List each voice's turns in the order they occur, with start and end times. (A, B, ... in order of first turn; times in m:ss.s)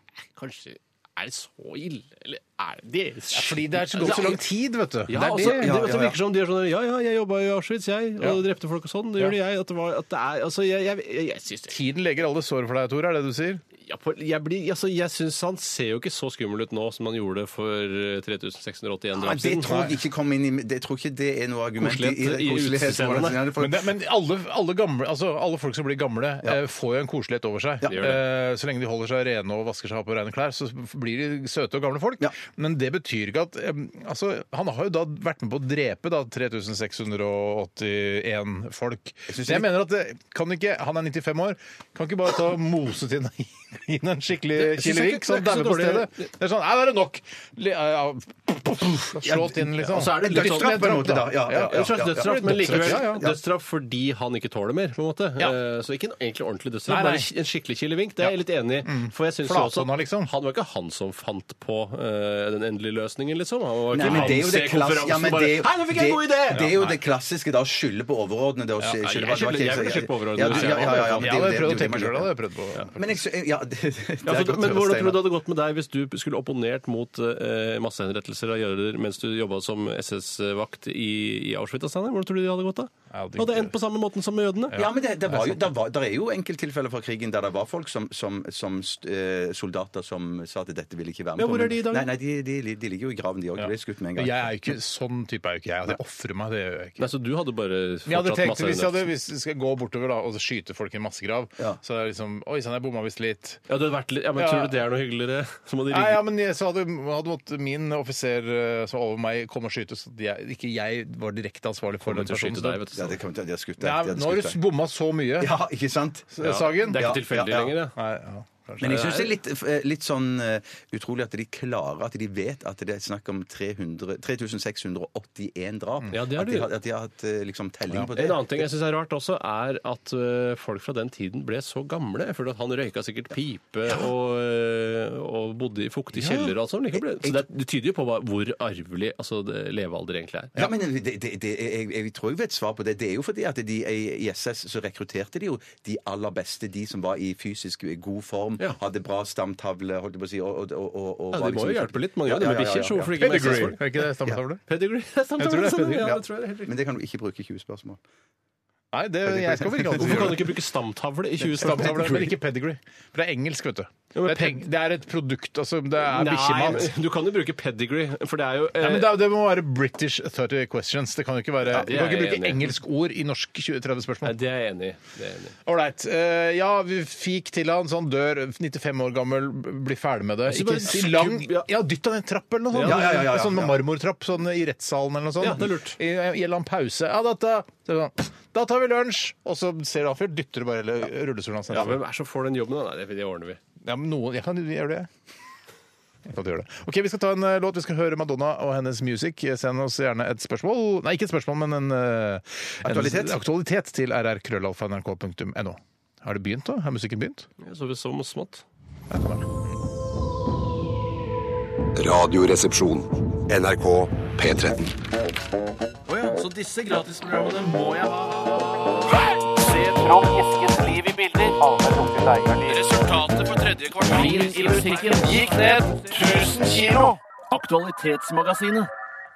0:00.4-0:04.4 A
0:03.3-0:05.7 B
0:05.1-0:11.8 A
0:05.4-0:06.2 C
0:11.7-0:13.6 B
0:13.8-0:19.7 A
0:19.2-0:23.9 C
0:19.7-0:19.9 B
0:21.8-0:23.5 A
0:23.6-0:53.3 B
0:27.8-0:28.1 C
0:27.9-0:28.2 A
0:39.3-0:39.7 C
0:44.6-0:46.2 A
0:49.2-0:53.4 C
0:49.8-1:06.7 A
0:56.9-0:57.3 B
0:58.2-1:00.3 B
1:03.9-1:12.3 C
1:04.1-1:04.4 B
1:06.5-1:06.9 B
1:09.0-1:11.7 A
1:10.4-1:13.2 B
1:12.9-1:15.4 C
1:14.2-1:24.8 A
1:23.1-1:23.7 B
1:24.7-1:25.6 B
1:24.7-1:34.7 C
1:31.4-1:32.1 A
1:33.6-1:37.1 B
1:37.0-1:39.1 A
1:38.1-1:43.6 B
1:43.7-1:46.2 A
1:44.4-1:44.8 B
1:45.9-1:52.8 B
1:52.0-1:53.2 A
1:52.9-1:54.6 C
1:53.8-1:55.6 B
1:55.4-1:57.8 C
1:56.4-1:57.1 B
1:56.4-1:58.0 A
1:58.0-1:59.0 B
1:58.8-2:08.7 C
1:58.9-1:59.3 A
2:06.1-2:06.7 A
2:08.1-2:20.6 A
2:16.2-2:17.4 C
2:20.6-2:34.4 C
2:31.3-2:33.9 A
2:33.2-2:34.6 B
2:34.7-2:36.8 A
2:35.4-2:36.1 B
2:36.0-2:38.0 C
2:38.9-2:40.4 B
2:39.3-2:40.4 C
2:40.0-2:42.4 A
2:41.5-2:46.9 B
2:41.7-2:41.9 C
2:44.2-2:44.6 A
2:46.0-2:49.2 A
2:48.8-2:54.3 B
2:51.7-2:52.8 A
2:54.2-2:55.6 A
2:55.7-3:12.0 B
3:00.5-3:01.7 A
3:02.7-3:03.1 A
3:02.8-3:03.8 C
3:05.4-3:06.0 A
3:11.7-3:13.6 A
3:13.8-3:15.1 B
3:16.3-3:27.5 B
3:22.8-3:23.4 C
3:27.6-3:28.6 A
3:29.1-3:29.5 B
3:32.0-3:35.0 D
3:36.1-3:37.6 A
3:37.1-3:38.1 E
3:39.4-3:48.9 E